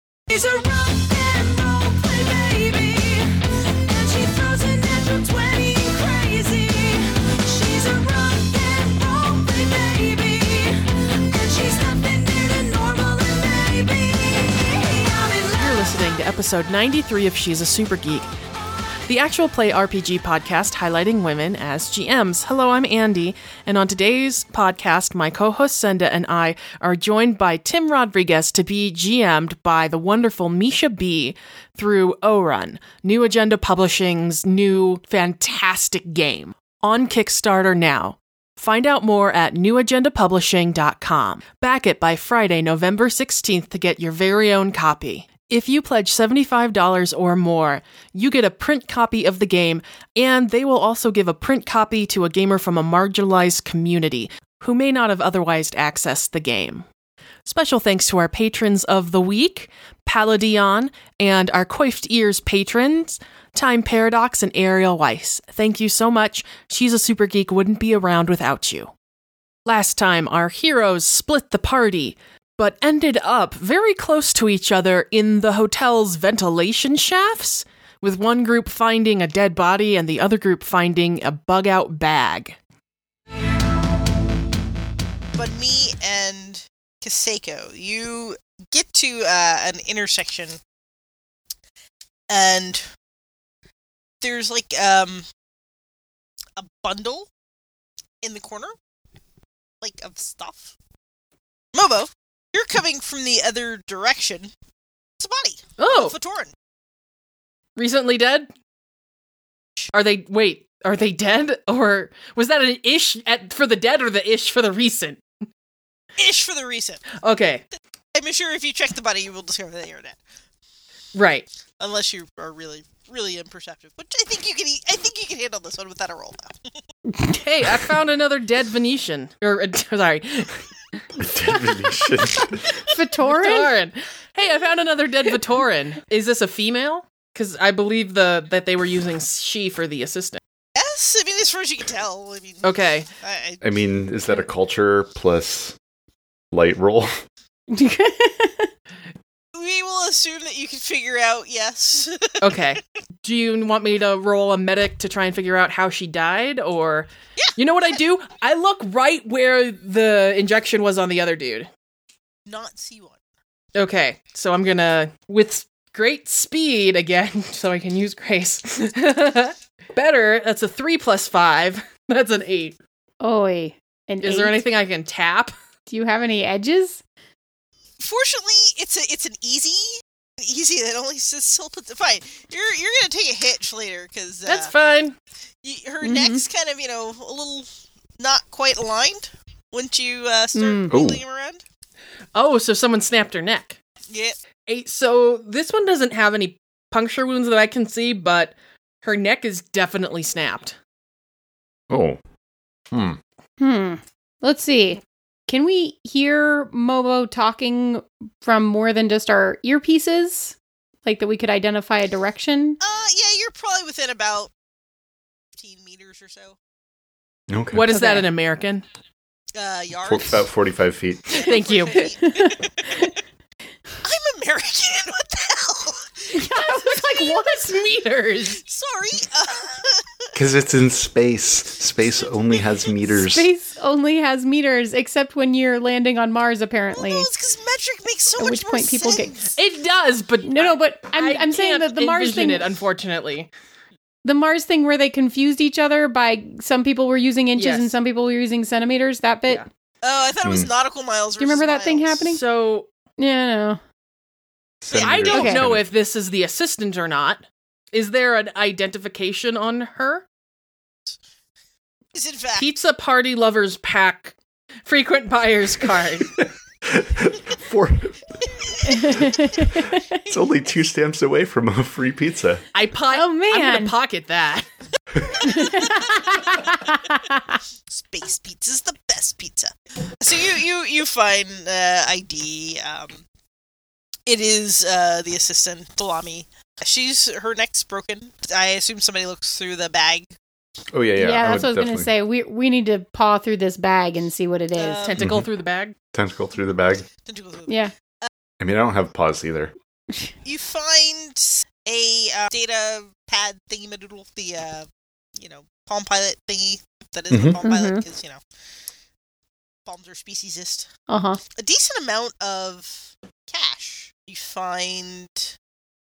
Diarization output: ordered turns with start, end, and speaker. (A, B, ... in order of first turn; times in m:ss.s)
0:00.3-0:03.3 A
0:03.9-0:15.9 A
0:15.6-0:18.3 B
0:19.1-0:56.8 B
0:57.4-1:08.9 B
1:09.6-1:22.6 B
1:25.4-1:30.6 C
1:32.3-1:32.8 C
1:34.2-1:35.3 C
1:36.6-1:37.3 C
1:38.2-1:38.7 C
1:39.8-1:40.8 C
1:41.7-1:44.5 C
1:45.2-1:46.5 C
1:45.8-1:46.2 B
1:47.8-1:48.5 B
1:49.9-1:55.2 B
1:56.2-1:57.1 C
1:57.2-1:57.6 B
1:58.1-2:00.2 C
2:01.1-2:01.5 B
2:01.8-2:06.6 C
2:07.3-2:10.6 B
2:11.2-2:12.7 D
2:12.8-2:13.7 E
2:13.2-2:20.4 B
2:20.8-2:22.7 C
2:22.6-2:23.1 B
2:23.2-2:23.7 C
2:23.6-2:25.8 D
2:26.5-2:27.2 D
2:27.7-2:28.7 E
2:29.5-2:32.6 C
2:32.4-2:41.7 B
2:42.5-2:43.2 C
2:43.8-2:52.8 B
2:53.2-2:54.6 E
2:54.2-2:55.5 B
2:55.9-2:57.0 E
2:58.0-3:04.7 C
3:04.4-3:05.2 B
3:05.6-3:07.7 C
3:06.0-3:06.4 E
3:08.2-3:11.6 C
3:10.6-3:10.9 E
3:10.9-3:11.2 D
3:12.4-3:13.8 B
3:14.1-3:14.4 C
3:14.7-3:20.8 B
3:21.9-3:22.2 D
3:22.9-3:23.2 D
3:23.6-3:32.8 E
3:32.8-3:34.5 C
3:35.6-3:36.6 C
3:37.5-3:37.9 D
3:37.7-3:38.8 B
3:37.9-3:38.3 E
3:39.6-3:40.4 C
3:40.1-3:41.5 D
3:41.3-3:43.1 C
3:41.4-3:42.0 B
3:42.0-3:43.1 E
3:44.0-3:47.3 C
3:46.3-3:47.8 E
3:47.3-3:48.6 B
3:48.6-3:50.3 C
3:50.4-3:53.5 D
3:53.1-3:57.3 E
3:56.9-3:59.5 C
3:58.4-3:59.4 E
3:59.6-4:03.5 B
4:00.5-4:02.6 E
4:04.2-4:09.6 E
4:07.6-4:07.9 B
4:10.0-4:12.2 C
4:10.4-4:10.7 D
4:11.4-4:12.4 E
4:12.2-4:12.9 B
4:13.2-4:13.8 E
4:14.8-4:15.8 D
4:14.9-4:20.3 B
4:15.0-4:15.3 C
4:15.3-4:15.6 E
4:22.1-4:22.7 C
4:22.6-4:26.3 B
4:26.4-4:28.2 D
4:28.6-4:29.1 C
4:28.9-4:30.2 E
4:28.9-4:32.6 D
4:32.7-4:34.7 B
4:33.1-4:33.9 E
4:35.3-4:37.6 E
4:35.5-4:35.8 C
4:37.9-4:43.2 C
4:44.3-4:50.3 C
4:50.9-4:52.1 D
4:51.2-4:55.2 E
4:54.8-4:55.2 C
4:55.0-4:56.0 B
4:55.2-4:55.5 D
4:56.1-4:57.1 D
4:57.2-4:58.3 C
4:58.6-4:59.7 D
5:00.4-5:08.4 C
5:07.3-5:07.6 D
5:07.6-5:08.0 E
5:09.8-5:10.9 C
5:11.1-5:11.4 E
5:11.6-5:15.6 C